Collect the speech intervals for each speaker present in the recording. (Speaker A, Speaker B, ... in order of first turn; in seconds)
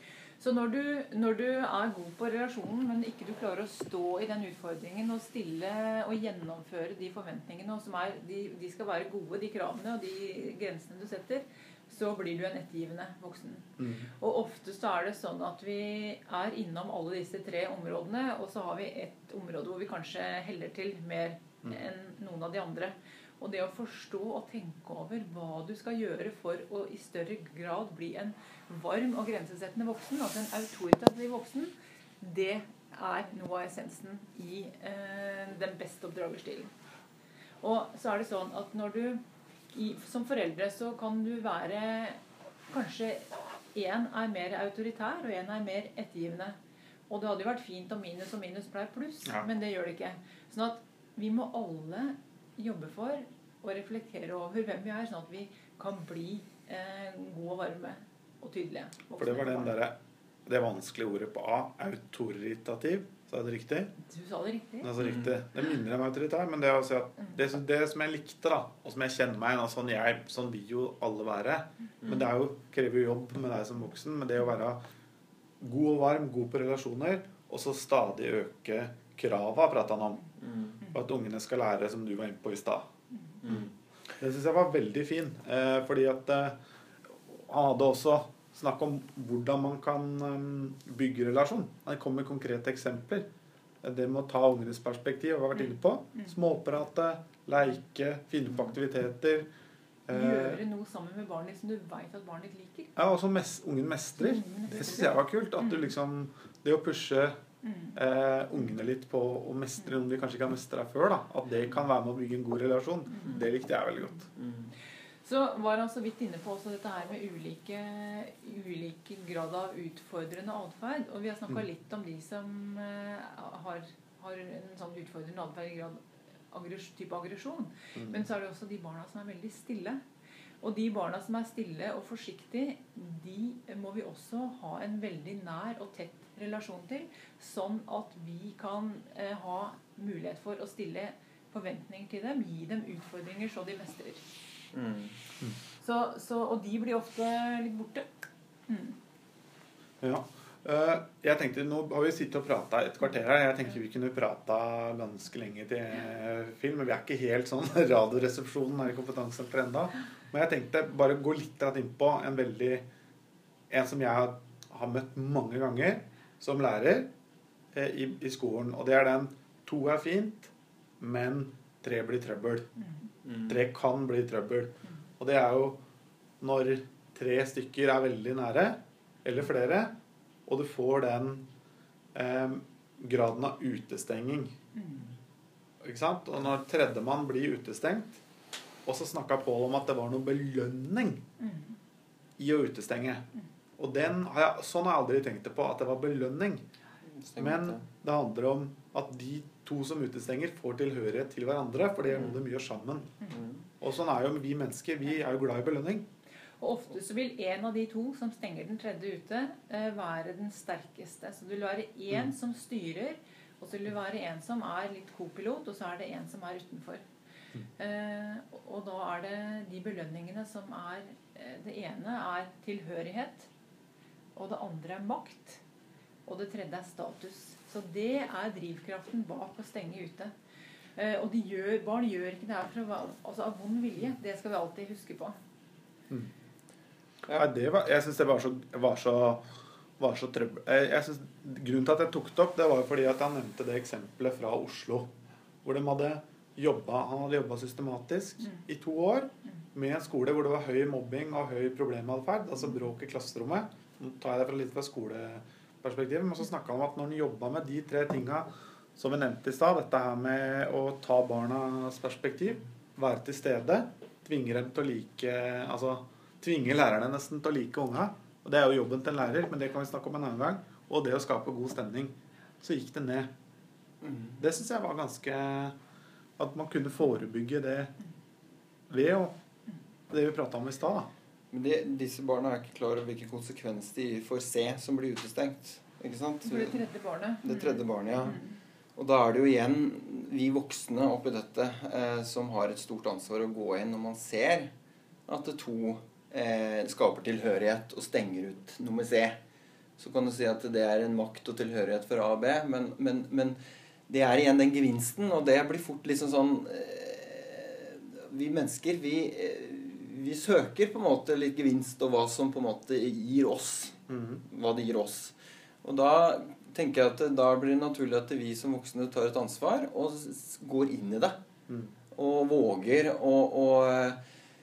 Speaker A: 0.4-36.7, 37.6-39.2, 39.7-46.6, 47.1-59.8, 64.1-64.9, 95.6-96.3, 100.1-102.9, 104.2-105.8, 107.6-108.0, 115.2-130.0, 130.6-144.2, 145.8-149.0, 184.8-185.1, 191.4-191.8, 206.6-217.0, 217.8-223.5, 224.3-225.6, 226.3-230.3, 231.0-235.4, 286.4-288.6
Speaker B: 13.8-14.1, 59.2-63.9, 64.8-74.8, 75.6-80.2, 80.9-82.9, 83.5-86.6, 87.3-93.3, 93.8-99.5, 100.1-100.6, 103.0-107.4, 108.0-114.3, 128.0-128.2, 150.0-162.9, 163.7-167.1, 167.8-172.7, 173.5-175.8, 176.4-179.9, 180.5-181.5, 182.2-184.5, 185.8-188.2, 188.9-191.2, 192.4-193.2, 193.8-196.7, 197.4-203.1, 203.8-206.1, 237.3-239.4, 240.0-245.1, 245.6-273.3, 274.4-275.8, 276.4-277.9, 278.9-279.4, 280.1-281.1, 314.1-314.4, 321.7-321.9
Speaker C: 65.0-65.3, 80.4-80.7, 114.4-114.7, 144.7-145.2, 197.2-197.8, 274.0-274.4, 281.5-286.8, 287.4-288.4, 289.0-294.7, 295.3-299.4, 300.0-321.4, 322.1-324.2